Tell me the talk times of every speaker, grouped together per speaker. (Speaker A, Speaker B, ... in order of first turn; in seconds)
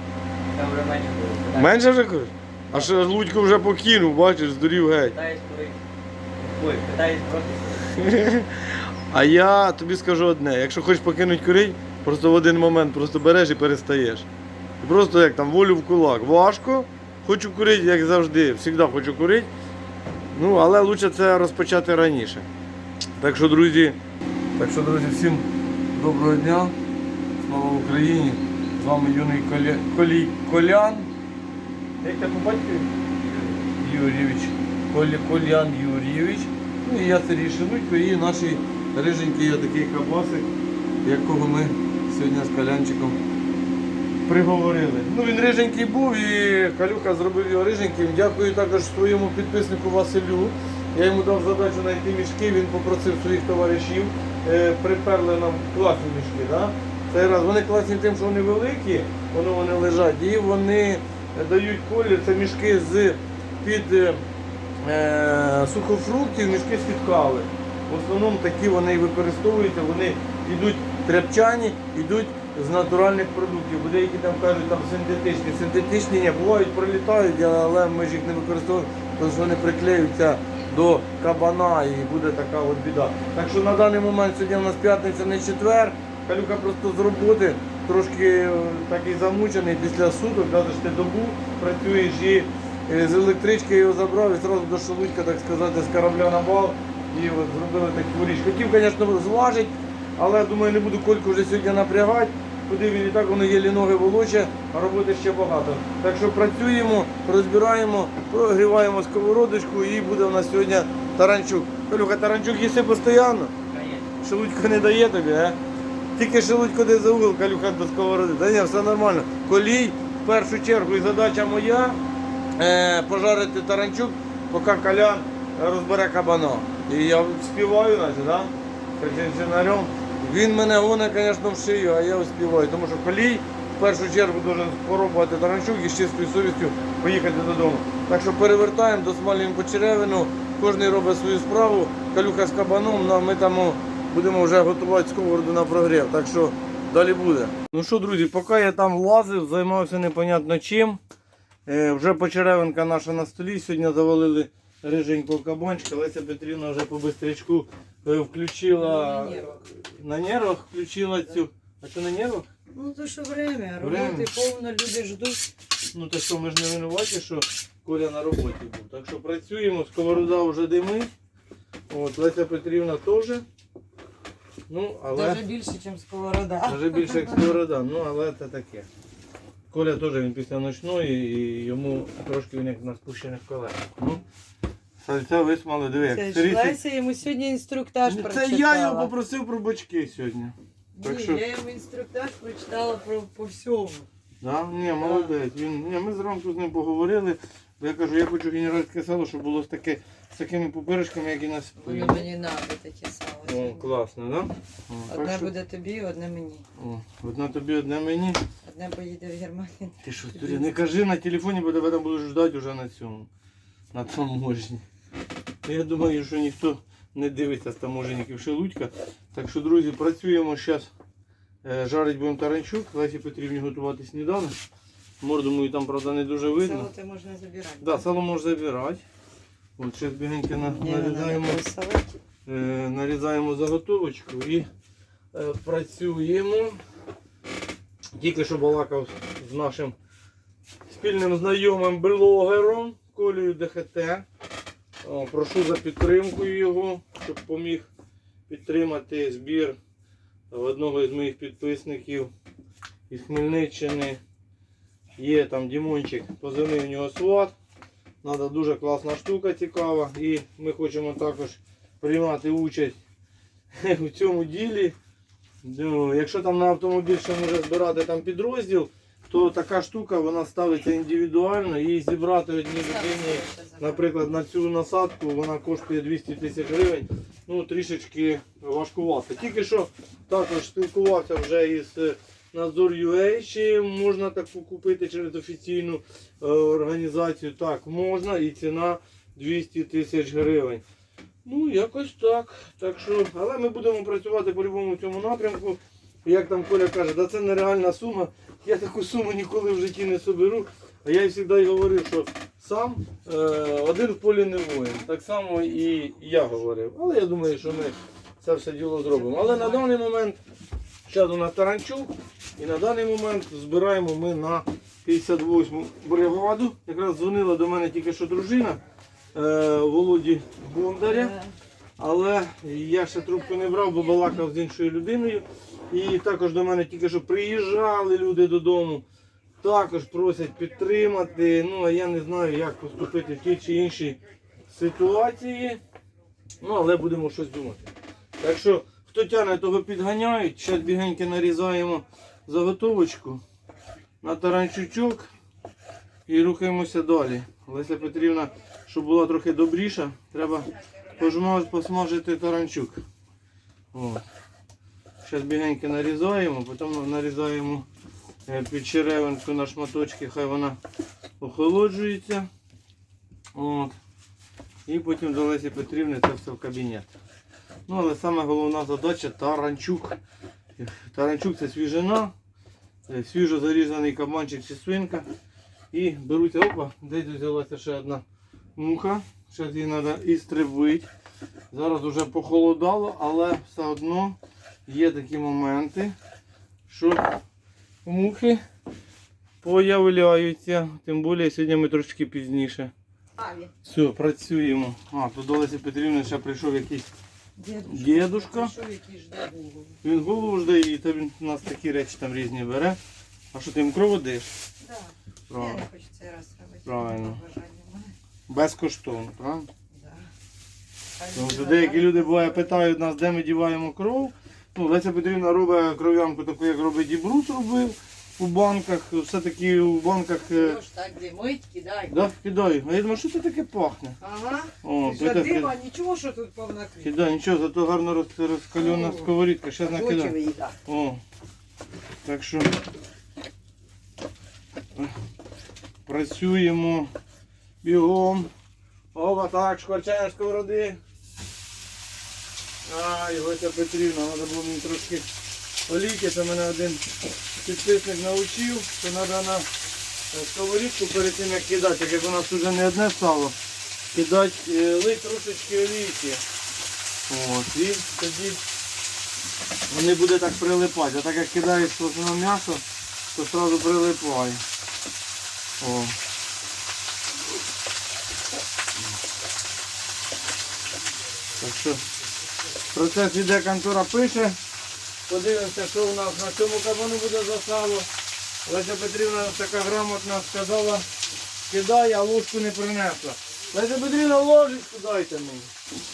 Speaker A: 0.5-1.7, 2.7-3.1, 5.1-5.8, 6.4-7.9, 113.7-114.1
Speaker B: 1.5-5.2, 7.9-14.3, 14.8-19.5, 20.3-22.5, 23.2-24.0, 24.6-26.8, 27.4-31.1, 32.0-32.9, 33.8-40.5, 41.0-43.2, 44.3-64.2, 64.8-113.5, 114.2-115.6, 116.2-122.0, 122.6-151.0, 151.7-162.5, 163.8-164.3, 165.9-171.1, 171.9-173.4, 174.7-175.4, 176.7-178.9, 179.7-184.2, 185.0-186.8, 188.1-191.4, 194.4-202.3, 203.4-205.5, 206.8-208.4, 210.0-213.3, 213.9-214.8, 215.6-220.9, 221.6-224.5, 225.2-226.9, 227.8-229.0, 229.8-231.6, 232.4-234.7, 235.3-236.8, 238.2-239.9, 240.9-244.2, 245.0-247.9, 248.5-249.8, 250.5-252.3, 253.1-254.2, 255.2-257.5, 258.2-263.0, 263.8-265.0, 265.6-290.8, 291.4-310.4, 311.1-318.8, 319.3-321.3, 322.0-329.0, 329.6-335.8, 336.6-337.8, 338.4-343.4, 344.2-345.3, 346.3-353.0, 353.9-354.2, 355.2-357.9, 358.5-360.8, 361.4-362.5, 363.5-364.0, 364.9-367.1, 367.9-370.2, 370.8-372.3, 373.1-375.3, 375.9-378.2, 378.8-381.1, 381.7-386.1, 386.9-387.3, 388.1-388.6, 389.6-392.9, 393.8-397.1, 397.9-398.7, 400.0-403.0, 403.5-404.5, 405.5-405.8, 406.9-407.4, 408.5-409.7, 411.3-420.8, 422.1-424.2, 424.8-425.8, 427.0-430.4, 430.9-431.2, 432.2-432.7, 436.1-437.1, 437.8-438.5, 439.1-441.0, 442.9-445.2, 445.9-447.0, 447.6-449.7, 450.3-453.6, 454.1-456.4, 457.3-458.6, 459.9-462.8, 463.3-464.6, 465.8-466.2, 471.6-472.0, 472.9-474.6, 475.3-478.1, 478.7-481.1, 481.7-485.7
Speaker C: 158.7-159.6, 162.7-165.5, 175.1-177.6, 186.0-189.1, 190.9-194.1, 194.9-195.3, 201.8-203.9, 205.1-206.7, 208.6-210.7, 226.5-228.1, 230.6-232.2, 272.8-274.1, 309.1-309.9, 321.0-321.5, 393.4-393.7, 397.6-400.0, 404.8-408.1, 409.9-410.3, 411.2-412.8, 420.4-422.3, 424.2-427.1, 428.8-430.8